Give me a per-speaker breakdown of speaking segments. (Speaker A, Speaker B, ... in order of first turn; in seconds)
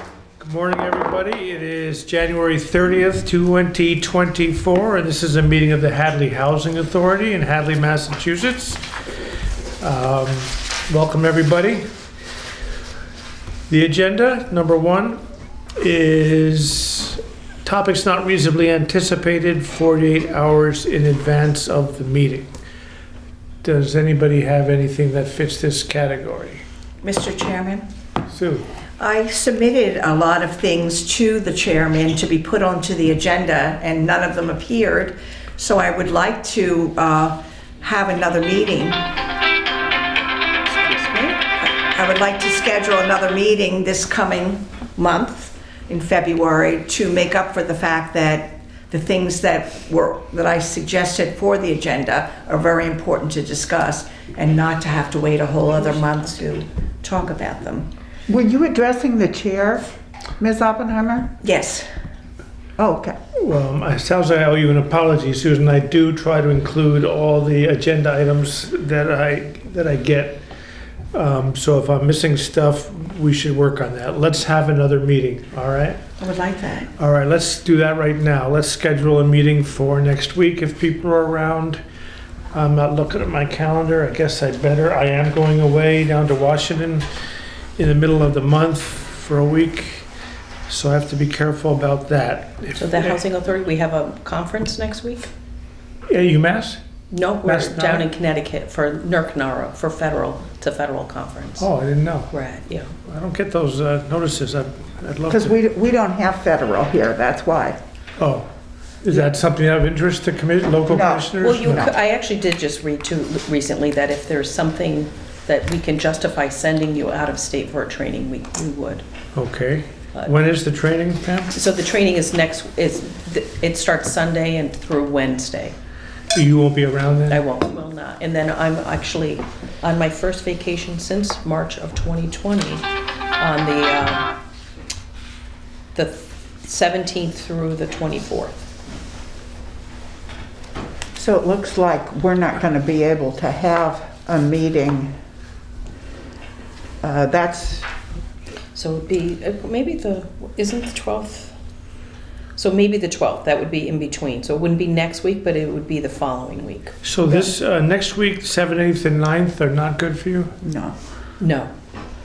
Speaker A: 0.4-8.8, 9.8-11.8, 13.7-15.2, 15.8-22.5, 23.6-26.6, 28.3-28.7, 63.4-70.4, 71.1-76.0, 77.0-81.8, 82.5-87.1, 87.8-90.1, 90.7-93.2, 96.1-96.8, 97.5-98.1, 101.6-102.3, 103.0-105.5, 108.2-108.5, 109.0-111.9, 119.3-121.5, 126.3-127.4, 157.0-160.5
Speaker B: 27.0-27.8, 29.0-39.0, 41.2-57.9, 61.4-61.9, 76.2-76.9
Speaker C: 40.7-41.3, 92.8-95.3, 97.1-101.7, 102.3-102.9, 111.4-119.0, 121.5-125.8, 127.3-132.8, 133.4-134.3, 135.9-138.6, 148.7-151.6, 152.6-157.0, 161.4-161.7
Speaker D: 58.3-61.3, 62.8-63.2, 105.3-107.8, 110.9-111.3, 141.2-145.1, 147.0-147.9, 157.3-157.5, 160.6-160.9